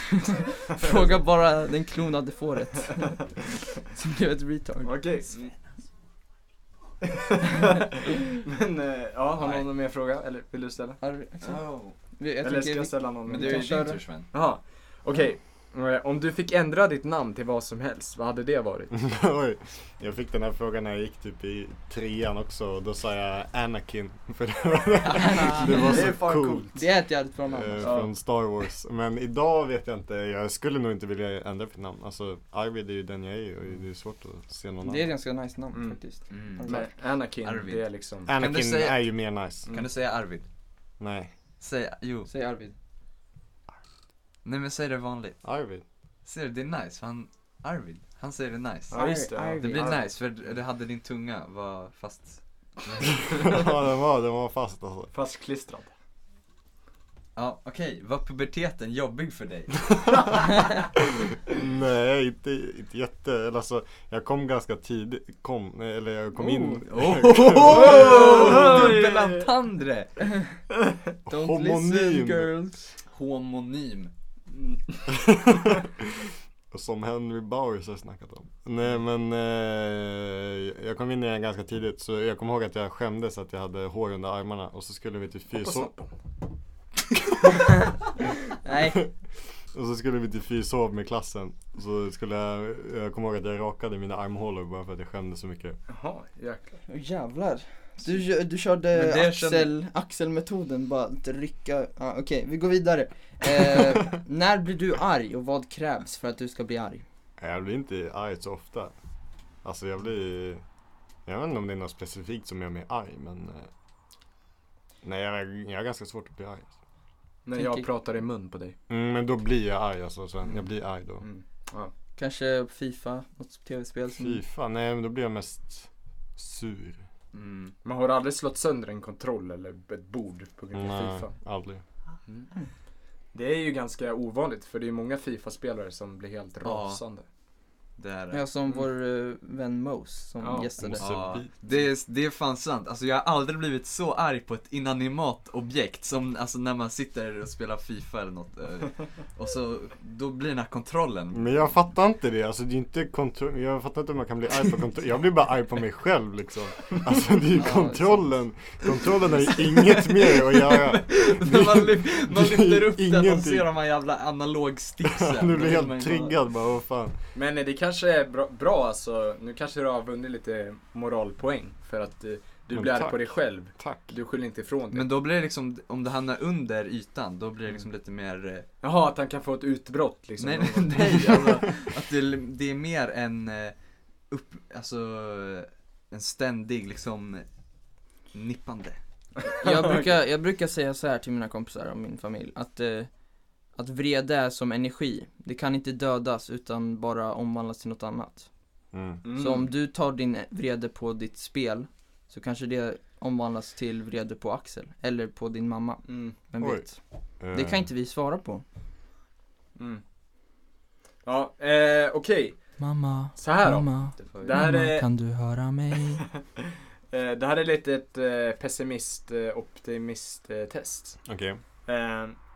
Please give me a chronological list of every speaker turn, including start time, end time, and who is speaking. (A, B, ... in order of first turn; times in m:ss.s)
0:00.7-0:05.0 A
0:04.8-0:05.5 B
0:05.3-0:05.6 C
0:07.0-0:11.0 B
0:09.4-0:09.7 C
0:11.0-0:14.0 A
0:11.4-0:12.0 C
0:12.4-0:18.9 B
0:13.3-0:14.3 C
0:18.9-0:26.8 D
0:25.1-0:28.0 A
0:25.6-0:26.8 B
0:27.5-0:35.1 D
0:27.8-0:28.1 B
0:34.8-0:36.9 A
0:35.7-0:36.0 B
0:36.3-0:36.9 C
0:36.7-0:38.3 B
0:37.4-0:40.5 C
0:38.3-0:39.7 D
0:41.0-0:41.3 D
0:41.6-0:42.3 C
0:42.3-0:42.7 A
0:44.4-0:45.4 C
0:45.4-0:45.8 D
0:46.2-0:53.1 C
0:48.9-0:50.1 B
0:48.9-0:50.0 A
0:53.3-0:55.1 D
0:55.1-0:55.9 B
0:57.4-1:00.4 C
1:01.5-1:08.5 D
1:06.4-1:06.8 A
1:06.7-1:10.1 C
1:07.8-1:09.5 B
1:10.2-1:10.6 A
1:11.3-1:12.5 D
1:11.3-1:12.9 A
1:13.1-1:14.1 C
1:14.5-1:15.1 B
1:15.1-1:25.9 D
1:25.5-1:26.1 B
1:28.6-1:29.0 A
1:29.7-1:35.8 D
1:35.9-1:36.7 B
1:36.9-1:47.0 A
1:38.9-1:39.7 C
1:47.4-1:48.9 D
1:49.6-1:50.6 D
1:51.3-1:53.7 D
1:55.0-1:56.7 D
1:57.4-1:58.8 B
1:57.6-1:57.9 A
1:58.9-2:01.3 D
2:01.2-2:01.9 B
2:02.2-2:04.4 A
2:04.1-2:07.0 D
2:07.3-2:07.8 C
2:07.8-2:11.3 B
2:10.7-2:11.8 D
2:13.3-2:17.2 B
2:16.6-2:17.0 C
2:18.0-2:18.4 C
2:18.3-2:21.1 A
2:20.4-2:20.7 B
2:20.8-2:21.5 D
2:21.0-2:31.6 C
2:31.3-2:43.7 D
2:37.6-2:38.2 A
2:39.5-2:46.4 C
2:45.0-2:47.2 D
2:47.4-2:55.1 B
2:52.7-2:54.1 D
2:54.9-2:58.7 C
2:58.8-3:01.7 B
3:00.4-3:03.8 C
3:04.3-3:07.5 C
3:08.3-3:09.0 C
3:09.5-3:10.1 B
3:09.6-3:13.1 A
3:13.8-3:18.5 A
3:18.9-3:19.2 D
3:19.2-3:19.7 B
3:19.4-3:28.6 A
3:26.1-3:26.4 B
3:26.6-3:26.9 D
3:27.4-3:27.9 D
3:29.8-3:30.0 B
3:31.2-3:32.8 B
3:32.8-3:36.3 A
3:33.4-3:35.1 B
3:34.2-3:34.6 C
3:37.1-3:41.2 B
3:41.2-3:41.6 D
3:41.8-3:42.4 B